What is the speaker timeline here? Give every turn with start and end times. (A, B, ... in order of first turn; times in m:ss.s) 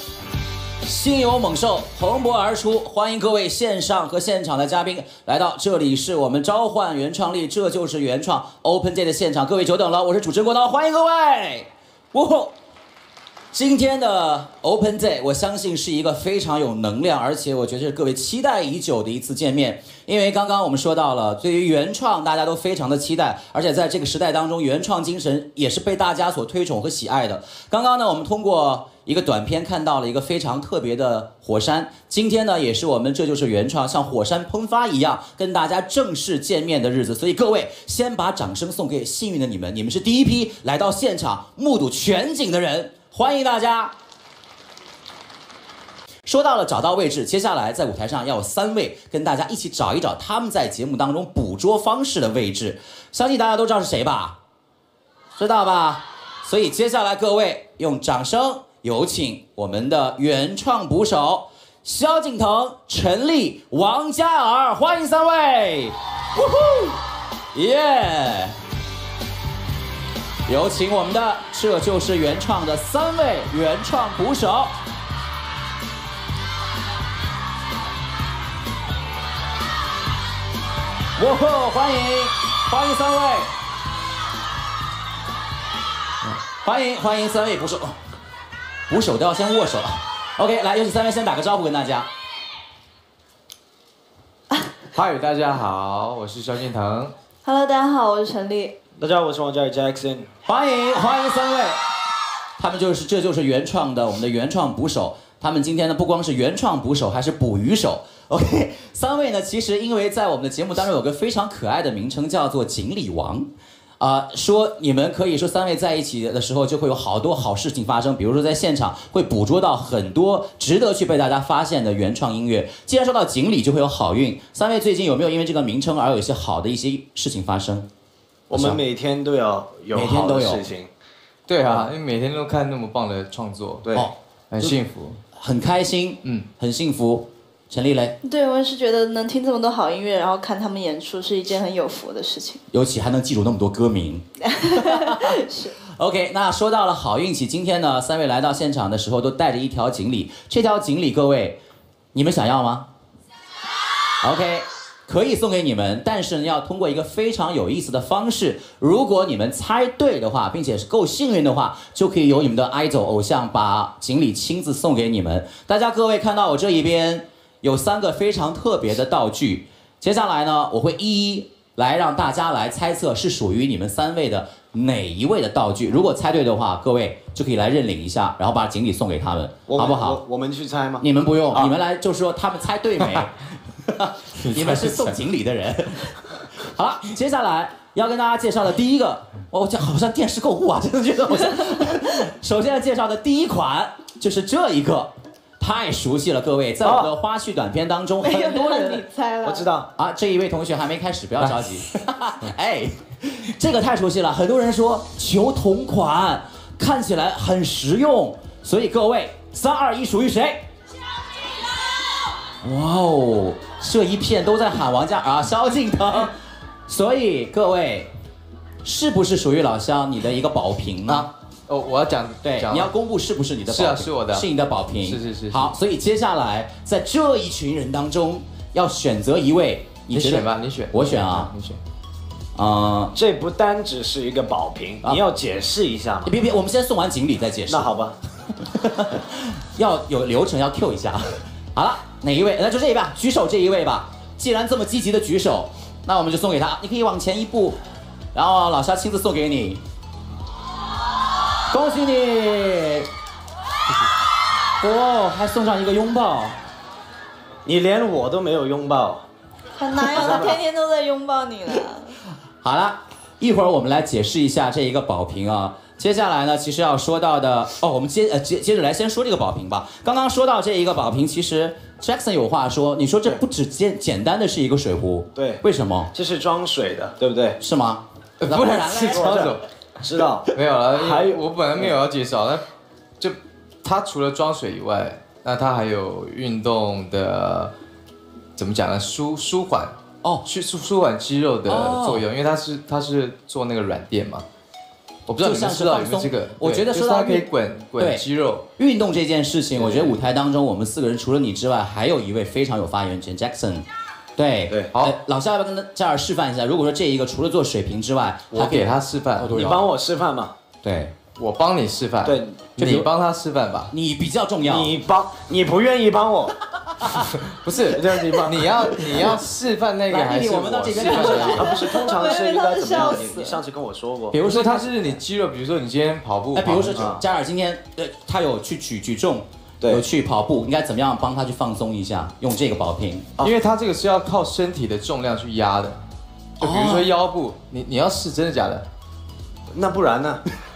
0:00.8-0:12.5 A
0:13.5-0:43.9 A
0:46.2-0:54.4 A
0:55.4-1:07.0 A
1:07.5-1:08.6 A
1:10.5-1:14.8 A
1:21.2-1:23.5 A
1:26.6-1:28.0 A
1:28.9-1:32.1 A
1:35.0-1:37.1 B
1:37.4-1:38.7 C
1:39.0-1:40.3 D
1:40.5-1:41.8 A
1:42.6-1:53.5 A
1:54.0-2:07.9 A
2:08.5-2:10.9 D
2:08.5-2:08.8 A
2:09.9-2:10.6 A
2:11.5-2:13.8 B
2:13.8-2:14.1 D
2:13.9-2:14.8 A
2:14.5-2:15.2 B
2:15.4-2:18.2 A
2:18.2-2:22.6 C
2:22.7-2:25.4 A
2:24.4-2:25.8 C
2:25.9-2:31.6 A
2:32.1-2:32.9 A
2:34.2-3:00.2 A
2:59.7-3:01.7 D
3:01.0-3:19.0 A
3:04.4-3:05.1 B
3:16.8-3:17.1 D
3:18.2-3:19.7 C
3:19.4-3:19.9 D
3:20.0-3:30.6 A
3:32.6-3:38.1 A
3:38.8-3:41.3 A
3:41.1-3:42.9 B
3:42.4-3:51.5 A
3:43.7-3:44.5 B
3:45.0-3:45.8 B
3:50.1-3:51.8 B
3:52.6-3:53.1 A
3:53.2-3:56.4 D
3:56.2-3:57.9 A
3:57.7-3:58.2 D
3:58.6-4:07.8 A
4:08.3-4:09.8 A
4:11.7-4:13.1 A
4:14.8-4:16.6 A
4:17.6-4:19.2 D
4:19.8-4:22.2 C
4:20.2-4:20.6 D
4:22.6-4:36.1 A
4:35.4-4:35.6 D
4:36.1-4:37.6 D
4:37.6-4:39.6 A
4:38.4-4:39.6 B
4:39.1-4:41.9 D
4:40.5-4:42.6 B
4:43.2-4:47.7 B
4:48.6-4:54.4 B
4:51.7-4:52.2 A
4:55.3-4:58.7 B
4:55.4-4:58.2 A
4:58.8-5:03.9 A
4:59.8-5:00.2 B
5:04.4-5:09.7 A
5:08.5-5:09.8 B
5:09.5-5:10.5 D
5:10.8-5:11.1 A
5:11.4-5:13.9 B
5:12.2-5:12.6 D
5:12.8-5:13.1 A
5:13.9-5:14.9 A
5:14.6-5:16.6 D
5:17.4-5:22.0 B
5:17.9-5:19.3 D
5:20.1-5:21.9 A
5:21.0-5:24.4 D
5:21.7-5:23.6 C
5:24.3-5:27.1 B
5:24.4-5:24.9 A
5:26.6-5:33.3 A
5:27.0-5:27.2 D
5:33.4-5:36.0 B
5:36.6-5:38.9 B
5:36.6-5:37.1 A
5:39.7-5:40.4 D